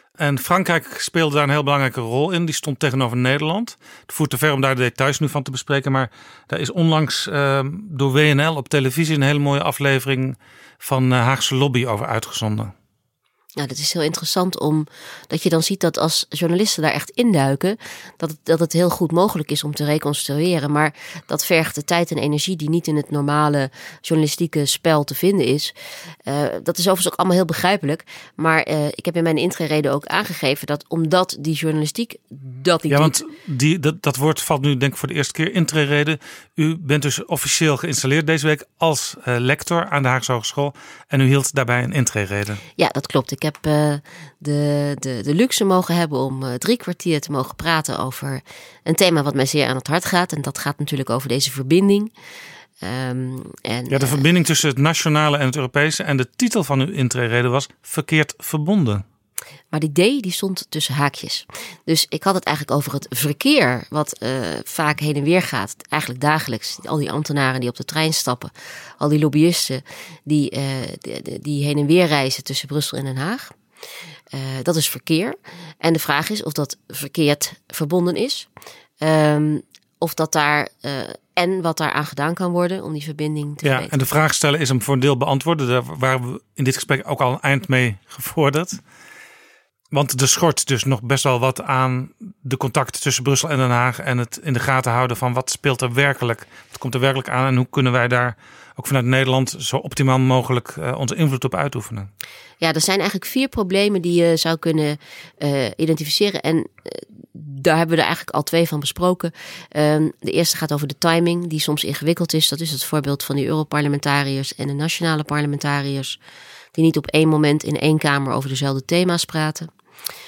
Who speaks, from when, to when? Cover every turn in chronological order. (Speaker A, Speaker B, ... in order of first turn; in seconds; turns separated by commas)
Speaker A: 0.2-12.7, Speaker B: 13.6-25.7, Speaker B: 26.2-33.1, Speaker A: 32.9-42.6, Speaker B: 42.8-52.1, Speaker B: 52.8-54.2, Speaker A: 53.9-59.0, Speaker B: 59.7-73.5, Speaker B: 74.3-78.5, Speaker B: 79.0-84.0, Speaker A: 83.6-88.8, Speaker A: 89.9-102.1, Speaker B: 102.6-116.2, Speaker B: 116.7-119.7